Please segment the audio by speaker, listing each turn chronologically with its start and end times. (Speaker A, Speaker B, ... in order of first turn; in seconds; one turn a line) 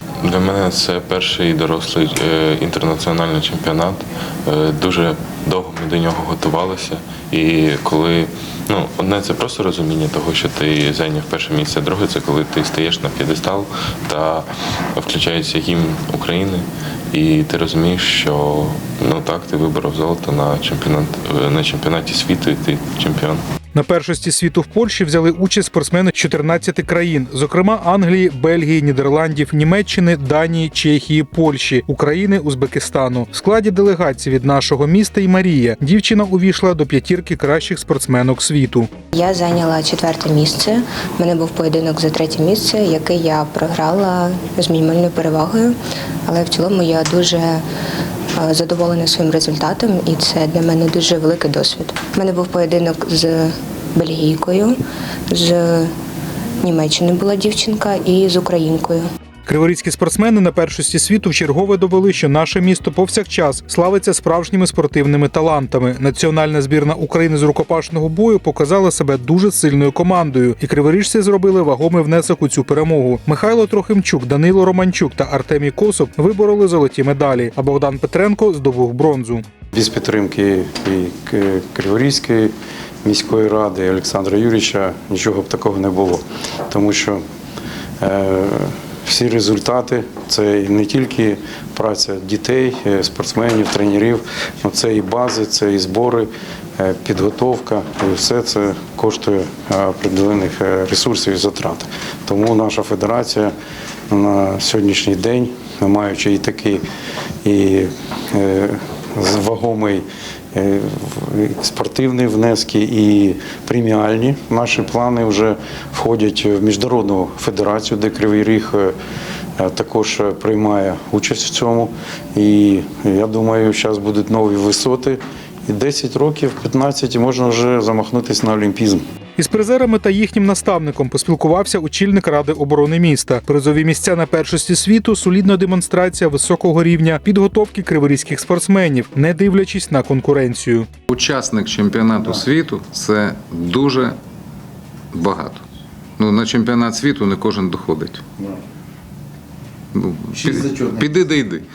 Speaker A: 0.2-23.4
Speaker B: 23.7-38.9
Speaker C: 39.1-47.6
Speaker C: 48.4-54.8
Speaker C: 55.3-55.9
Speaker C: 56.6-59.0
Speaker B: 59.5-79.4
Speaker D: 79.7-82.5
Speaker D: 83.0-87.2
Speaker D: 88.0-103.5
Speaker D: 104.1-106.8
Speaker D: 107.4-118.9
Speaker D: 119.6-129.0
Speaker B: 129.4-140.9
Speaker E: 141.1-144.2
Speaker E: 145.1-145.6
Speaker E: 146.2-148.5
Speaker E: 149.9-151.6